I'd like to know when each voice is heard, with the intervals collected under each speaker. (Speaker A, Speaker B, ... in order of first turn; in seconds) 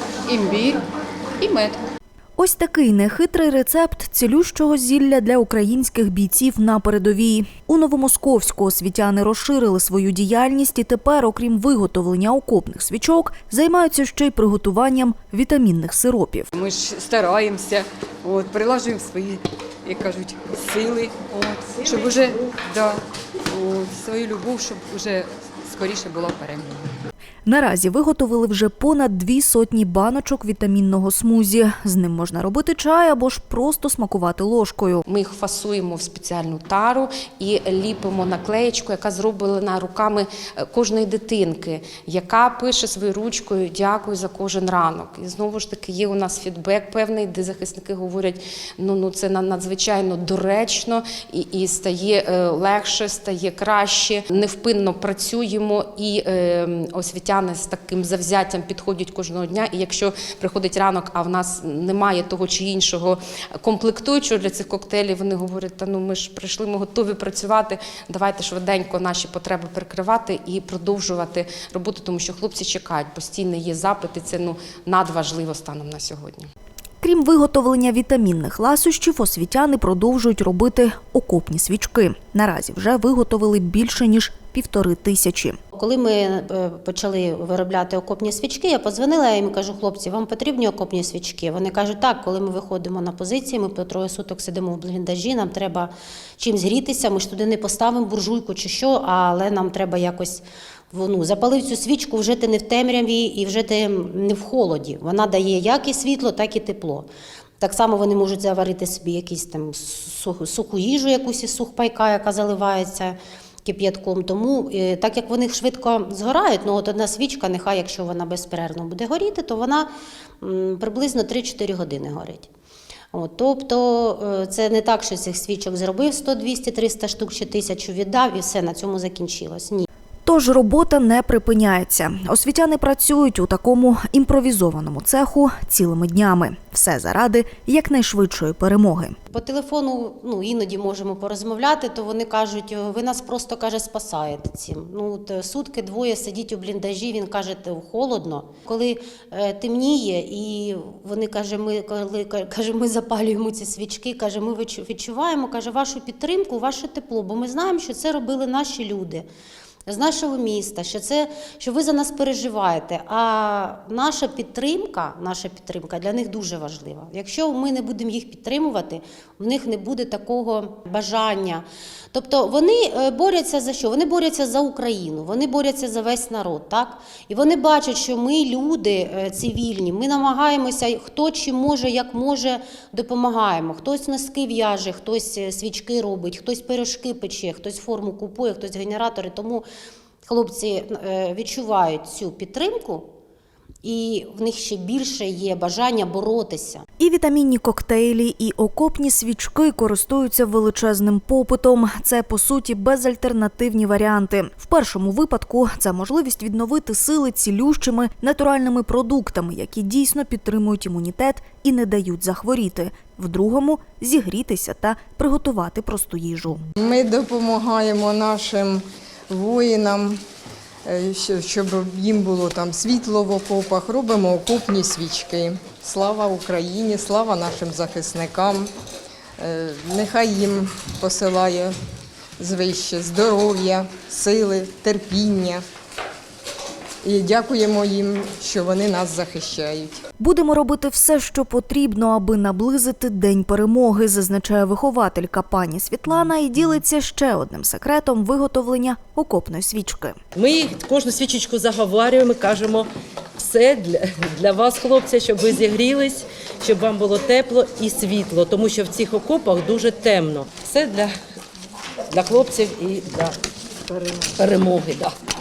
Speaker A: 0.3-0.8, 1.4-1.8, 16.5-26.8
Speaker B: 2.4-16.5, 27.4-35.0, 77.0-85.5, 130.2-139.1, 197.0-216.6, 240.2-250.2
Speaker C: 35.0-76.5
Speaker D: 85.7-107.1, 107.6-119.9, 120.4-122.5, 123.1-129.9, 139.3-159.2, 159.9-189.6, 190.2-193.1, 193.8-196.8
Speaker E: 216.8-220.2, 220.8-228.7, 229.4-231.7, 232.4-235.6, 237.0-240.0
Speaker F: 250.3-261.1, 262.1-263.3, 264.3-265.1